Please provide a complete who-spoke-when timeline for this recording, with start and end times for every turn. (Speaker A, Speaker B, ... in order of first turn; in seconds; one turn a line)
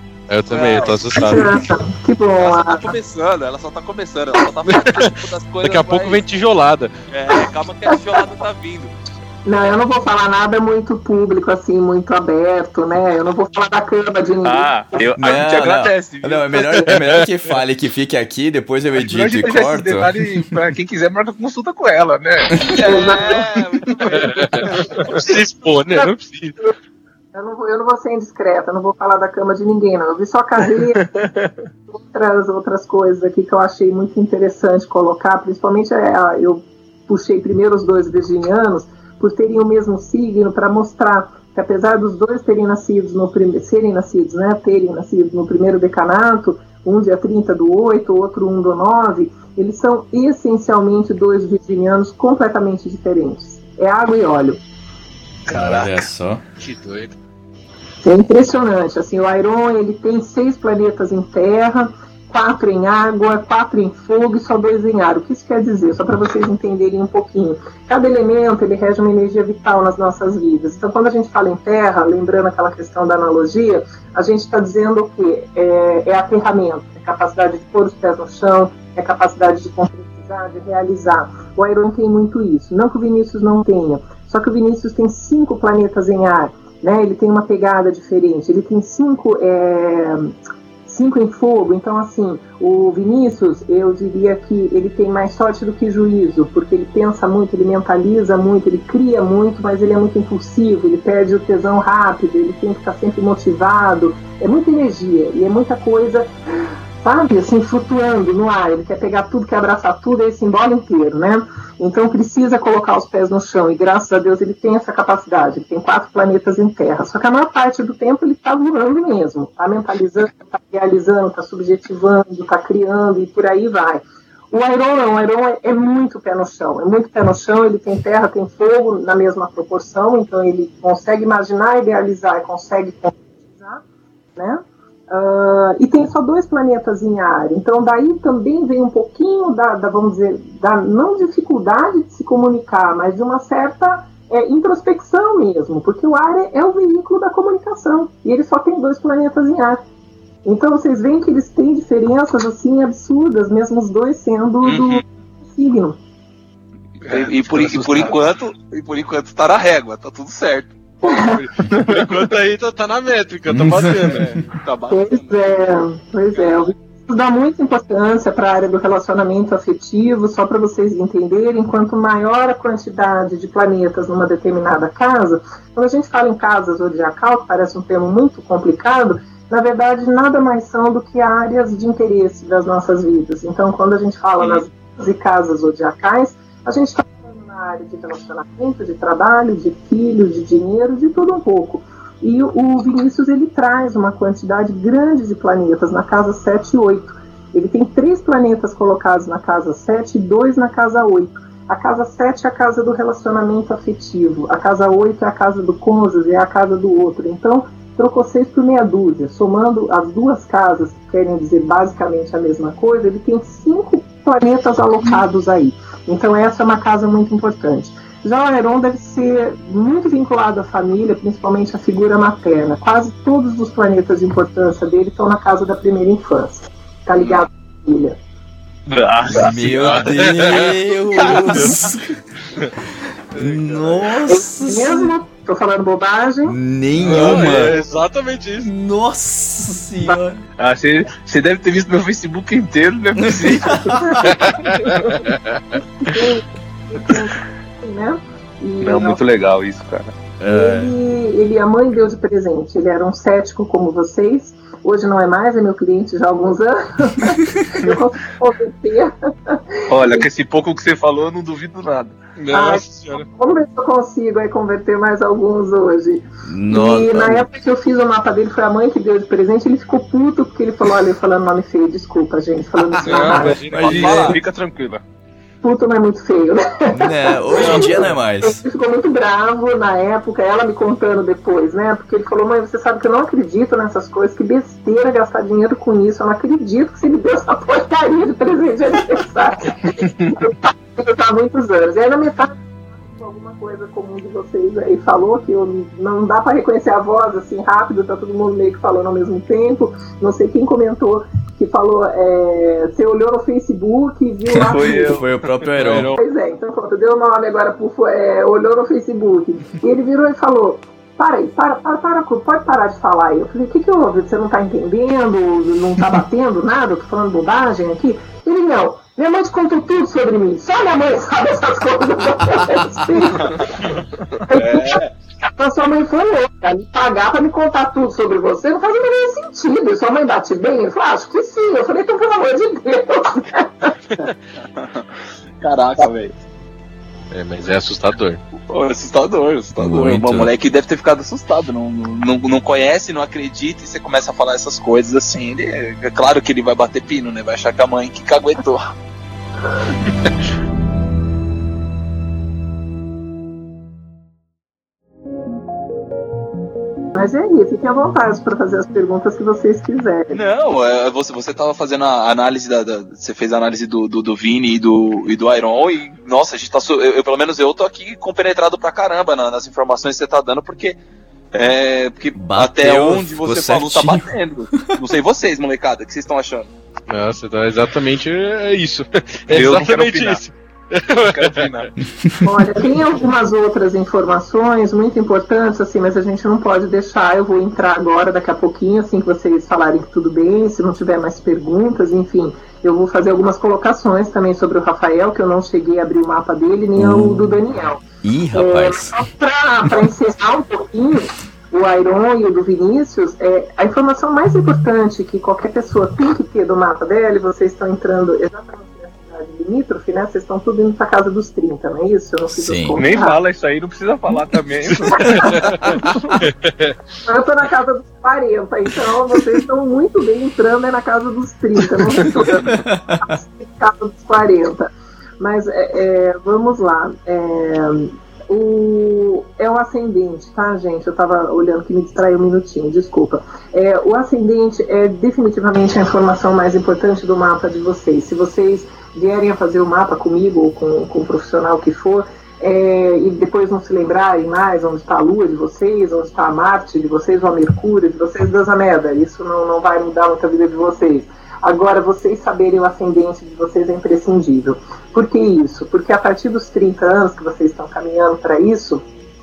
Speaker A: 0.3-1.6
Speaker B: 0.5-1.4
Speaker C: 1.1-2.9
Speaker B: 2.4-6.2
Speaker A: 4.7-6.9
Speaker B: 7.1-8.9
Speaker C: 9.4-14.7
Speaker D: 14.4-17.2
Speaker E: 15.2-20.1
Speaker D: 19.0-23.0
Speaker B: 22.7-25.4
Speaker C: 22.8-23.5
Speaker D: 24.0-24.8
Speaker A: 24.1-26.6
Speaker C: 25.9-26.7
Speaker C: 27.3-31.0
Speaker D: 31.0-31.5
Speaker C: 31.9-54.6
Speaker E: 55.5-56.4
Speaker A: 56.6-57.2
Speaker C: 58.0-90.3
Speaker C: 90.9-133.8
Speaker C: 134.4-149.8
Speaker C: 150.4-156.0
Speaker B: 154.6-155.0
Speaker D: 157.1-158.1
Speaker B: 157.1-160.8
Speaker C: 161.0-161.4
Speaker A: 161.0-164.5
Speaker D: 161.7-162.3
Speaker E: 163.5-164.3
Speaker B: 164.4-165.8
Speaker C: 164.9-228.2
Speaker B: 166.3-166.6
Speaker B: 227.2-227.4
Speaker D: 228.9-230.0
Speaker E: 229.4-232.1
Speaker A: 229.6-231.8
Speaker E: 233.4-235.2
Speaker C: 234.3-236.6
Speaker E: 236.5-237.8
Speaker A: 237.0-238.7
Speaker D: 237.1-237.8
Speaker E: 238.6-240.4
Speaker D: 240.6-245.3
Speaker E: 243.2-244.4
Speaker C: 243.9-244.7
Speaker A: 244.2-245.8
Speaker C: 245.8-249.2
Speaker D: 248.8-250.1
Speaker E: 250.4-250.9
Speaker C: 250.5-260.3
Speaker D: 259.9-262.2
Speaker A: 262.4-263.2
Speaker C: 262.5-273.7
Speaker E: 266.4-267.5
Speaker A: 273.0-274.3
Speaker D: 273.5-275.0
Speaker B: 273.8-274.4
Speaker C: 275.6-305.2
Speaker E: 276.9-278.6
Speaker D: 290.0-290.3
Speaker E: 304.6-306.1
Speaker D: 304.7-305.4
Speaker A: 305.8-306.2
Speaker C: 306.1-323.6
Speaker C: 324.5-333.9
Speaker B: 324.5-325.1
Speaker B: 334.8-335.0
Speaker B: 335.6-336.3
Speaker A: 337.3-338.4
Speaker B: 338.7-348.9
Speaker E: 339.8-340.5
Speaker C: 357.1-360.4
Speaker B: 360.3-371.0
Speaker B: 371.5-376.7
Speaker E: 372.4-374.3
Speaker A: 377.1-381.9
Speaker D: 379.5-380.4
Speaker D: 381.3-381.9
Speaker C: 382.4-398.0
Speaker E: 397.0-397.6
Speaker E: 398.2-399.2
Speaker C: 398.5-413.4
Speaker E: 412.5-413.0
Speaker D: 413.0-416.2
Speaker A: 415.1-416.9
Speaker C: 415.2-415.7
Speaker C: 417.2-424.9
Speaker E: 422.7-423.2
Speaker C: 425.4-459.0